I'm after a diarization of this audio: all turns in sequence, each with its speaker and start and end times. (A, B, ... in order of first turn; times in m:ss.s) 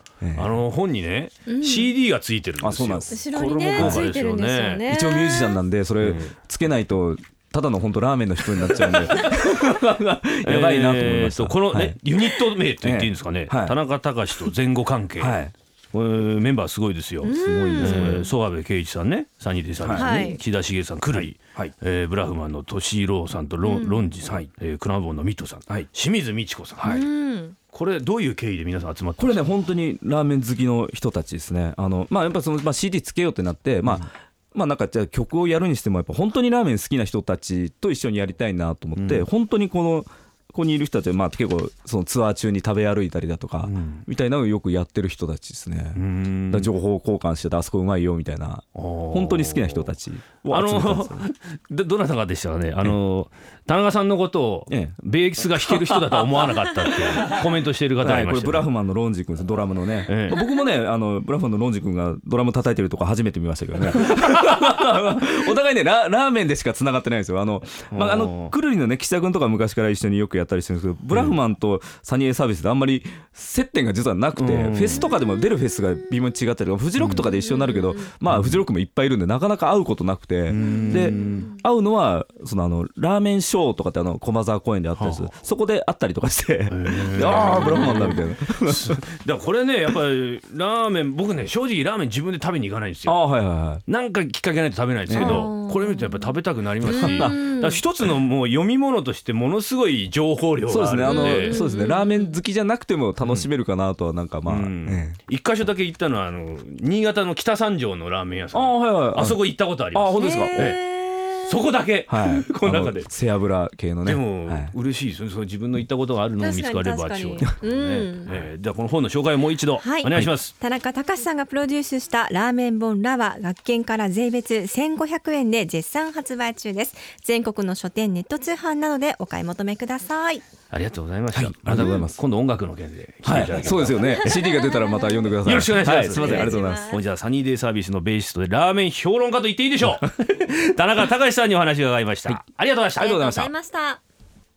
0:00.2-0:00.6 A
0:00.3-0:04.8 B
0:01.5-0:01.9 C
0:02.6-0:03.2 A
0:03.1-0:05.6 C
0:03.8-0:04.1 A
0:04.8-0:12.0 A
0:06.0-0:06.4 B
0:08.7-0:09.4 B
0:10.4-0:27.1 B
0:12.8-0:13.8 A
0:15.2-0:15.5 A
0:17.2-0:18.2 C
0:17.2-0:18.3 A
0:19.8-0:20.3 A
0:19.9-0:20.4 C
0:21.1-0:21.7 A
0:23.6-0:24.1 C
0:26.8-0:27.6 C
0:27.7-0:29.5 B
0:29.2-0:51.2 A
0:39.0-0:39.3 B
0:43.6-0:44.0 B
0:46.0-0:46.7 B
0:48.7-0:49.9 B
0:50.5-0:58.7 B
0:54.7-0:57.4 A
0:58.0-1:29.0 A
1:00.1-1:00.4 B
1:07.9-1:08.5 B
1:11.1-1:11.4 B
1:14.4-1:15.1 B
1:17.0-1:17.2 B
1:17.2-1:17.9 C
1:18.2-1:18.6 B
1:20.5-1:21.5 B
1:20.7-1:21.6 C
1:25.0-1:25.3 B
1:26.7-1:33.2 B
1:27.5-1:28.1 C
1:33.0-1:33.8 A
1:33.8-1:41.6 B
1:35.1-1:35.5 A
1:35.2-1:36.3 C
1:36.8-1:37.5 A
1:36.9-1:37.8 C
1:40.7-1:45.2 A
1:41.0-1:42.4 C
1:43.2-1:43.5 B
1:44.4-1:50.8 B
1:48.5-1:50.8 A
1:50.2-1:51.5 C
1:51.4-1:53.1 B
1:52.1-1:54.7 A
1:54.0-2:00.5 B
1:56.4-1:58.3 C
1:59.8-2:10.4 C
2:10.7-2:14.4 B
2:11.3-2:12.2 A
2:13.2-2:17.0 A
2:14.0-2:15.4 C
2:15.4-2:23.3 B
2:16.1-2:17.0 C
2:23.0-2:24.0 C
2:23.0-2:23.5 A